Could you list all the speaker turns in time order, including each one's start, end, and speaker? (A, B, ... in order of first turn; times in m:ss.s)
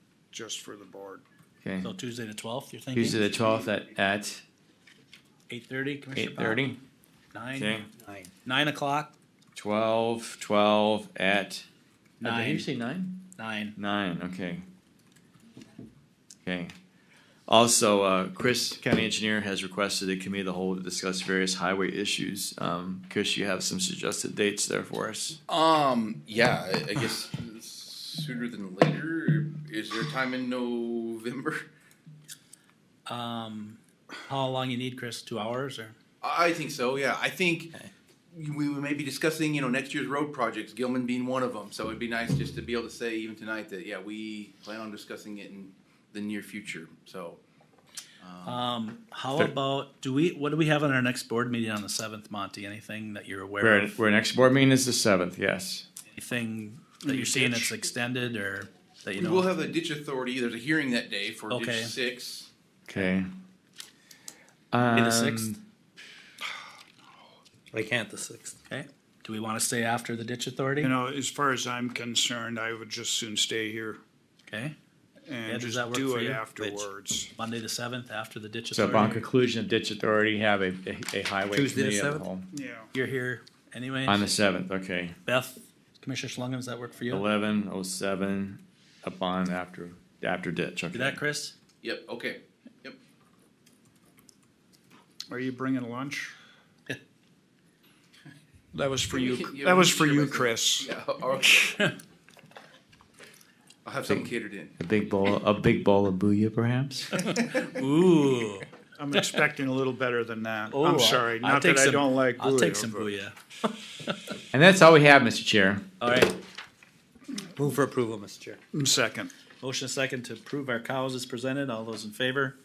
0:00.3-0:01.2 A
0:01.6-0:01.9 B
0:01.8-0:03.2 C
0:02.9-0:04.4 B
0:05.5-0:06.7 C
0:06.1-0:06.8 B
0:07.3-0:07.8 C
0:07.6-0:07.9 B
0:08.0-0:08.3 D
0:08.4-0:09.1 C
0:09.5-0:11.6 B
0:12.2-0:12.7 C
0:12.2-0:13.2 B
0:13.4-0:13.7 C
0:13.8-0:14.6 B
0:16.4-0:16.7 B
0:17.5-0:25.4 B
0:25.5-0:31.7 E
0:33.0-0:36.0 C
0:36.2-0:37.7 E
0:38.3-0:47.4 E
0:48.2-0:48.7 E
0:48.4-0:54.0 C
0:53.6-0:55.8 B
0:56.1-0:59.5 C
0:57.0-0:57.7 A
0:59.2-1:02.5 E
1:01.5-1:01.9 C
1:02.9-1:03.3 B
1:04.7-1:05.6 B
1:04.9-1:05.6 C
1:07.7-1:08.6 D
1:08.7-1:10.9 C
1:10.8-1:14.0 A
1:14.5-1:14.7 C
1:15.2-1:17.3 A
1:15.4-1:16.4 C
1:16.6-1:16.9 D
1:17.4-1:19.2 C
1:18.7-1:22.4 B
1:18.9-1:19.2 A
1:21.5-1:22.3 D
1:22.5-1:22.9 A
1:22.9-1:24.3 C
1:24.0-1:25.2 B
1:25.2-1:27.2 C
1:27.1-1:31.2 B
1:30.9-1:31.5 C
1:31.8-1:33.0 E
1:35.3-1:36.3 A
1:38.7-1:40.9 A
1:39.1-1:41.8 E
1:43.8-1:44.8 E
1:44.8-1:47.1 B
1:47.6-1:49.3 C
1:49.0-1:53.1 A
1:50.7-1:53.3 C
1:54.5-1:55.8 B
1:56.0-1:56.4 C
1:57.6-1:58.6 D
1:58.7-1:59.3 A
1:59.6-2:02.6 C